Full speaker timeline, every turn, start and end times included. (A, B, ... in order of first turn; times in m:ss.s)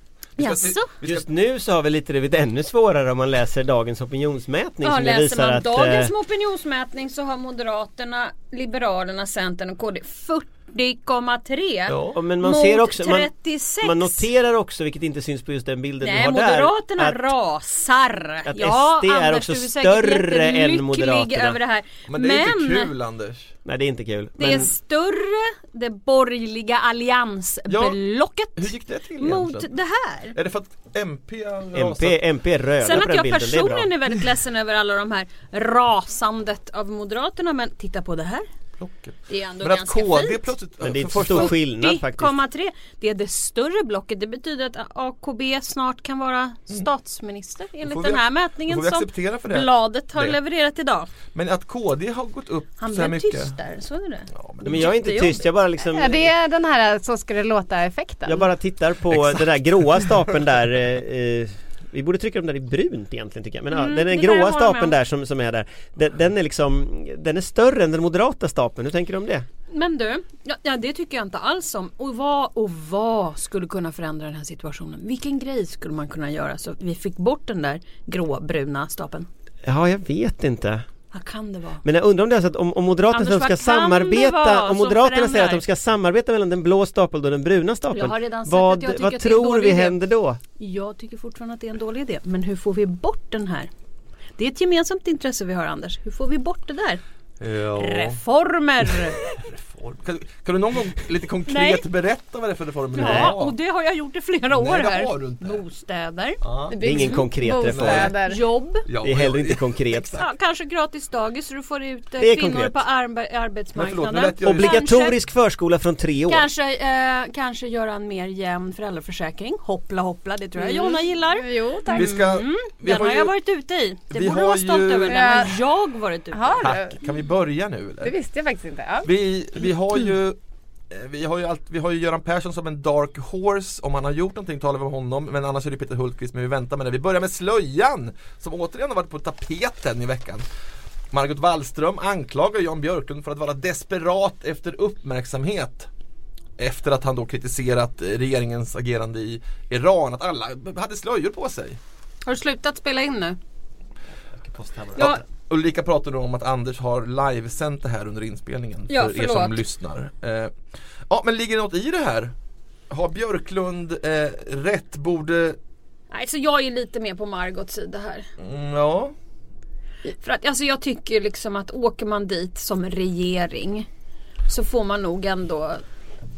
0:00.4-0:00.9 A
0:00.4-0:01.3 B
0:01.0-0:06.1 C
0:04.8-0:14.2 A
0:11.9-0:12.2 B
0:12.1-0:13.3 C
0:13.8-0:17.3 C
0:16.0-0:22.9 A
0:18.4-0:21.6 C
0:22.1-0:23.6 B
0:23.6-0:24.7 C
0:24.4-0:30.4 A
0:27.7-0:28.0 B
0:28.6-0:29.7 B
0:30.3-0:32.2 B
0:31.7-0:33.9 C
0:32.8-0:38.5 A
0:38.8-0:41.6 B
0:39.3-0:40.5 A
0:40.8-0:42.3 C
0:41.3-0:51.1 A
0:47.8-0:50.4 B
0:51.3-0:53.6 B
0:52.8-0:55.5 A
0:54.3-0:54.9 B
0:54.6-0:56.3 C
0:55.8-0:58.5 D
0:58.2-1:09.5 C
1:03.7-1:04.9 A
1:09.7-1:19.3 A
1:19.6-1:20.9 C
1:21.1-1:21.8 A
1:21.8-1:30.4 C
1:23.1-1:25.6 A
1:27.9-1:30.0 A
1:30.6-1:33.7 A
1:34.4-1:37.0 A
1:37.4-1:38.2 B
1:37.8-1:39.2 A
1:39.0-1:43.6 B
1:41.5-1:41.8 A
1:42.9-1:46.4 A
1:43.0-1:43.3 C
1:44.5-1:45.6 B
1:46.4-1:47.0 B
1:46.7-1:48.4 D
1:46.8-1:48.2 C
1:47.6-1:48.1 B
1:48.2-1:48.9 A
1:48.9-1:50.2 B
1:49.0-1:50.2 C
1:50.1-1:55.2 A
1:52.2-1:52.8 C
1:53.8-1:55.0 B
1:54.4-1:56.5 C
1:56.3-2:06.7 A
2:00.6-2:02.1 D
2:01.9-2:03.3 B
2:04.1-2:05.5 B
2:05.1-2:05.5 D
2:06.3-2:07.0 D
2:06.6-2:08.2 B
2:08.0-2:09.1 D
2:09.0-2:10.4 B
2:10.9-2:20.4 B
2:21.1-2:25.9 B
2:26.6-2:31.8 B
2:32.3-2:33.4 A
2:34.4-2:35.2 C
2:35.0-2:35.2 A
2:35.0-2:40.5 B
2:38.9-2:39.6 A
2:41.1-2:42.3 B
2:42.9-2:45.6 B
2:46.1-2:48.3 A
2:48.4-2:49.2 B
2:50.2-2:53.9 A
2:54.5-2:55.8 A